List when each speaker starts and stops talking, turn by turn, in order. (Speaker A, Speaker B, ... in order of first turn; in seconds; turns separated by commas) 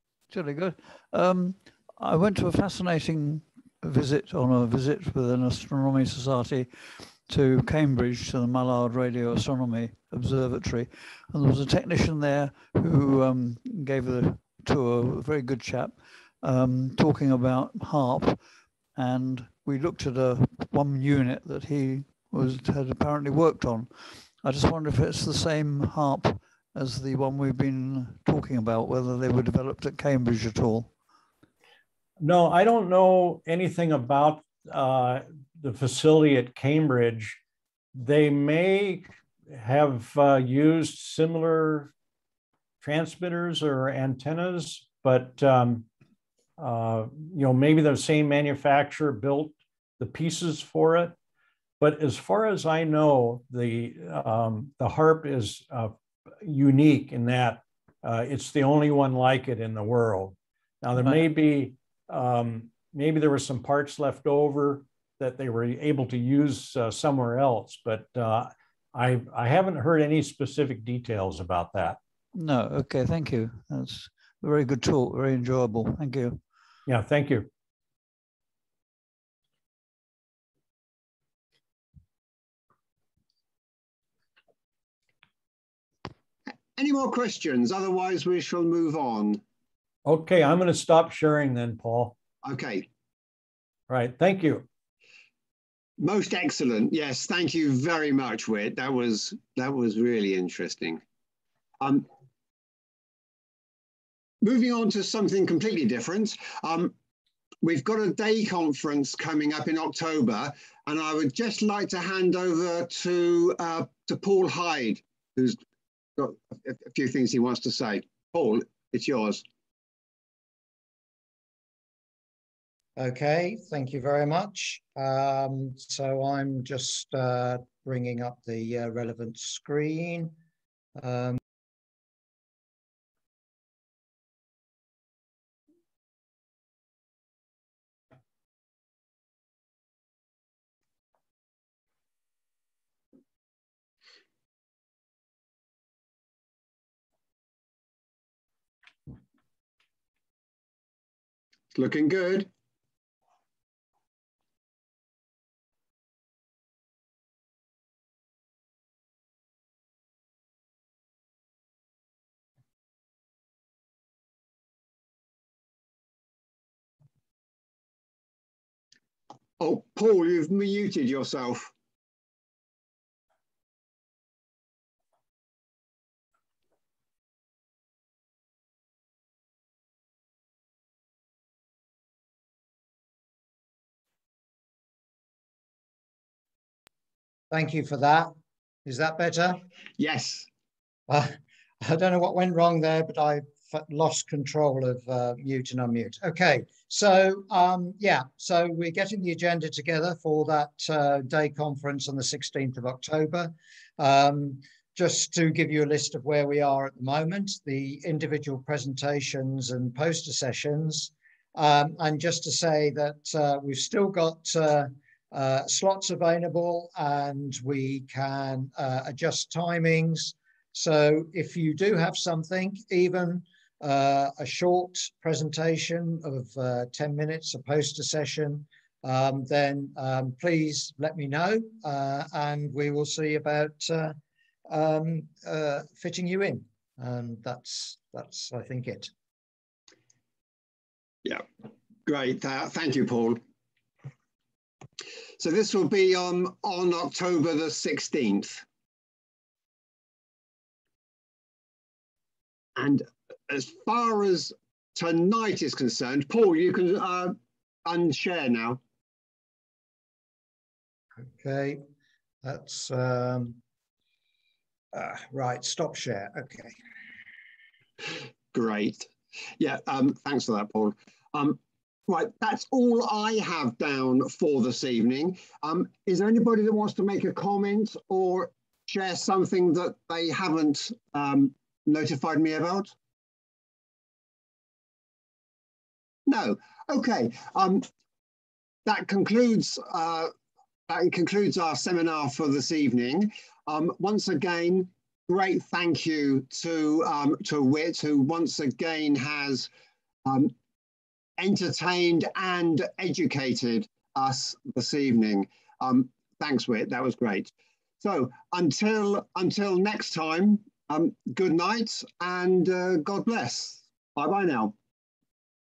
Speaker A: 0.3-18.4, Speaker A: 18.9-30.9, Speaker B: 32.2-37.4, Speaker B: 37.9-41.9, Speaker B: 42.8-45.9, Speaker B: 46.6-51.1, Speaker B: 51.8-72.0, Speaker A: 72.3-76.4, Speaker B: 76.9-77.5, Speaker C: 86.7-89.4, Speaker B: 90.0-92.2, Speaker C: 92.4-92.9, Speaker B: 93.9-94.7, Speaker C: 96.0-101.0, Speaker C: 101.8-102.1, Speaker C: 104.4-106.9, Speaker C: 107.6-115.6, Speaker C: 116.2-119.4, Speaker D: 123.0-130.3, Speaker D: 131.0-131.4, Speaker C: 151.7-152.5, Speaker C: 169.6-171.7, Speaker D: 187.5-188.3, Speaker D: 188.8-189.6, Speaker C: 190.0-190.5, Speaker D: 191.1-234.1, Speaker D: 234.7-239.1, Speaker C: 242.1-243.4, Speaker C: 245.4-248.6, Speaker C: 252.8-258.8, Speaker D: 261.4-261.8, Speaker D: 262.4-263.6, Speaker D: 264.9-266.7, Speaker C: 268.5-282.9, Speaker C: 286.2-287.9, Speaker C: 288.9-290.3, Speaker C: 290.9-299.7, Speaker C: 300.2-300.5, Speaker C: 301.4-314.7